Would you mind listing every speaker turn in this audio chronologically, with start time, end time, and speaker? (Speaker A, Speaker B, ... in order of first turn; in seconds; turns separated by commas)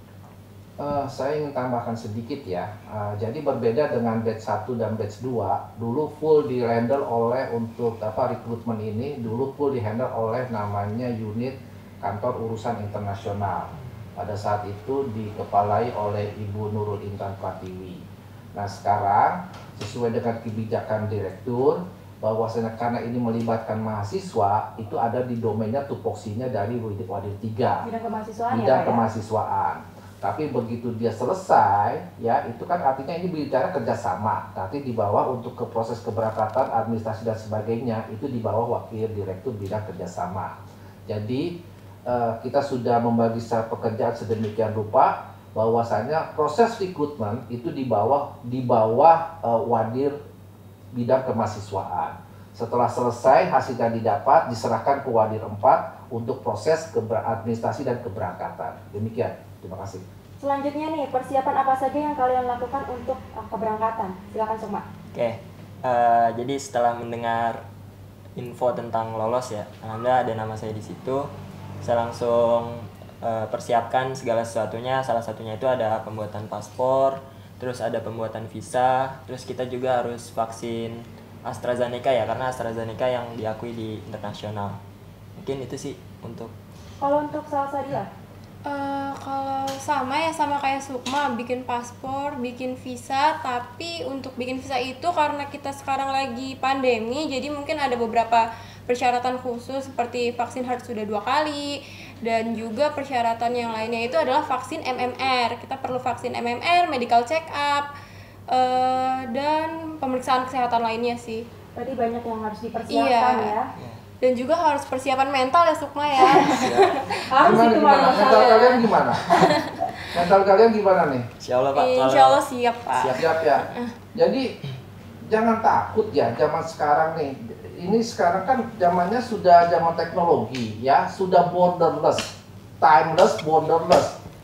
Speaker A: 0.8-27.9, Speaker B: 27.8-29.0, Speaker A: 28.5-40.6, Speaker A: 41.1-41.5, Speaker A: 42.1-50.1, Speaker A: 50.9-60.0, Speaker B: 60.4-64.9, Speaker C: 65.1-67.6, Speaker C: 68.4-71.3, Speaker C: 71.8-84.8, Speaker C: 85.4-86.5, Speaker B: 87.0-88.1, Speaker D: 88.7-107.9, Speaker D: 108.5-111.5, Speaker B: 111.8-113.7, Speaker D: 112.9-113.5, Speaker C: 113.8-114.0, Speaker D: 114.2-120.0, Speaker B: 116.2-116.7, Speaker C: 116.6-117.1, Speaker B: 117.3-118.8, Speaker A: 117.4-119.3, Speaker A: 120.1-121.3, Speaker C: 121.4-122.4, Speaker D: 121.8-123.9, Speaker C: 122.9-123.3, Speaker A: 123.1-124.5, Speaker A: 125.3-134.2